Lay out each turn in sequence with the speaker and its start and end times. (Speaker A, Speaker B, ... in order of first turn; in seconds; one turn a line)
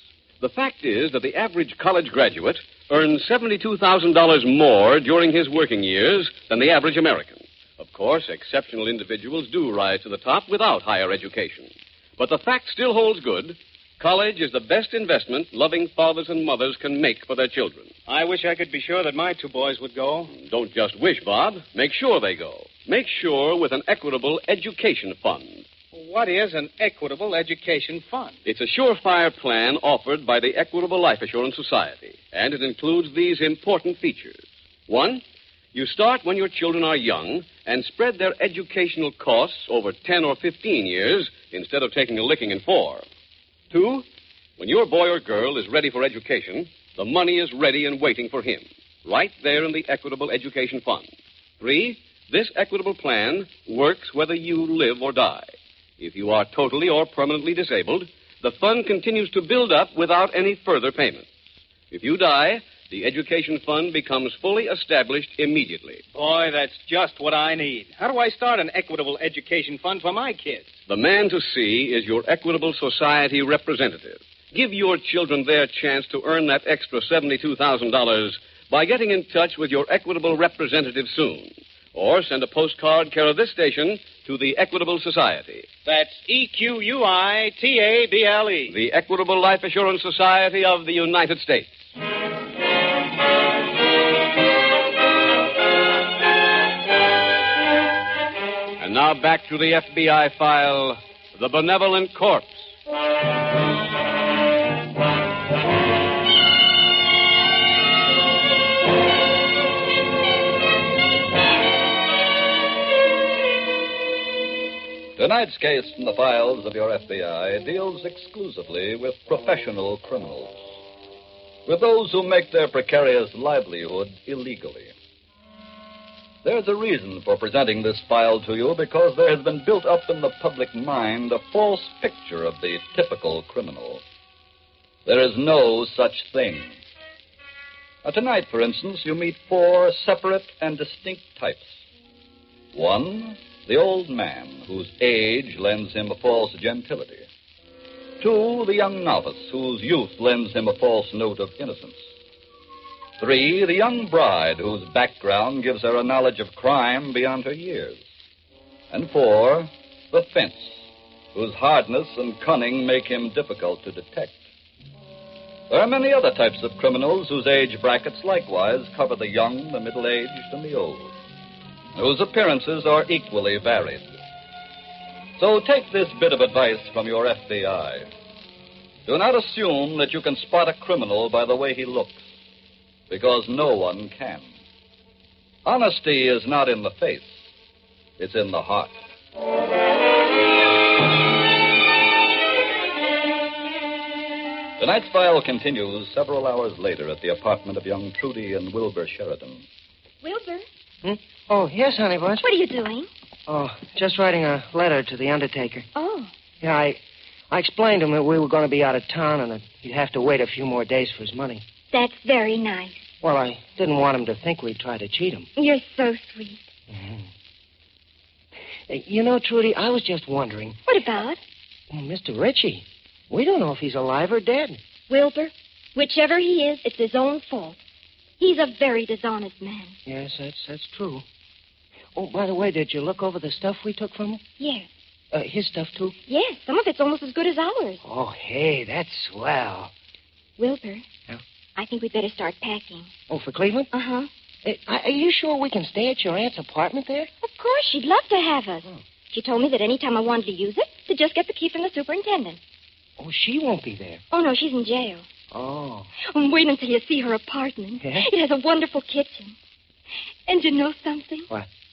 Speaker A: 0.4-17.9
Speaker B: 18.1-20.3
Speaker A: 20.4-25.6
Speaker B: 25.9-28.4
Speaker A: 28.4-35.2
Speaker A: 35.7-43.1
Speaker A: 43.7-44.0
Speaker A: 44.6-61.3
Speaker A: 61.9-66.0
Speaker B: 66.1-70.8
Speaker A: 70.9-85.7
Speaker B: 85.8-88.7
Speaker A: 88.7-91.7
Speaker A: 98.8-102.7
Speaker C: 115.2-120.8
Speaker C: 121.7-124.9
Speaker C: 126.4-134.0
Speaker C: 135.1-136.8
Speaker C: 138.0-141.8
Speaker C: 142.7-147.3
Speaker C: 148.2-152.1
Speaker C: 153.2-158.1
Speaker C: 158.9-164.4
Speaker C: 165.7-171.1
Speaker C: 172.0-174.1
Speaker C: 175.4-178.1
Speaker C: 179.1-182.2
Speaker C: 183.1-184.5
Speaker C: 185.7-187.3
Speaker C: 188.2-189.0
Speaker C: 194.8-199.7
Speaker D: 200.2-200.7
Speaker E: 201.0-202.5
Speaker D: 202.4-203.1
Speaker E: 203.5-205.9
Speaker D: 205.9-206.3
Speaker E: 206.6-211.6
Speaker D: 211.9-213.1
Speaker E: 213.2-215.5
Speaker D: 215.6-216.6
Speaker E: 216.9-217.3
Speaker E: 218.9-220.8
Speaker D: 220.9-221.4
Speaker E: 221.9-224.8
Speaker D: 225.1-227.8
Speaker D: 228.4-230.0
Speaker E: 230.1-231.2
Speaker E: 232.2-234.4
Speaker D: 234.6-234.9
Speaker E: 235.3-236.1
Speaker D: 236.3-238.0
Speaker E: 238.0-239.9
Speaker D: 240.6-241.1
Speaker D: 241.8-243.1
Speaker E: 243.3-243.9
Speaker D: 243.9-244.3
Speaker E: 244.7-247.3
Speaker D: 247.4-252.6
Speaker E: 253.2-254.2
Speaker D: 254.3-255.3
Speaker E: 255.5-256.1
Speaker D: 256.3-259.6
Speaker E: 258.0-258.3
Speaker D: 260.5-261.5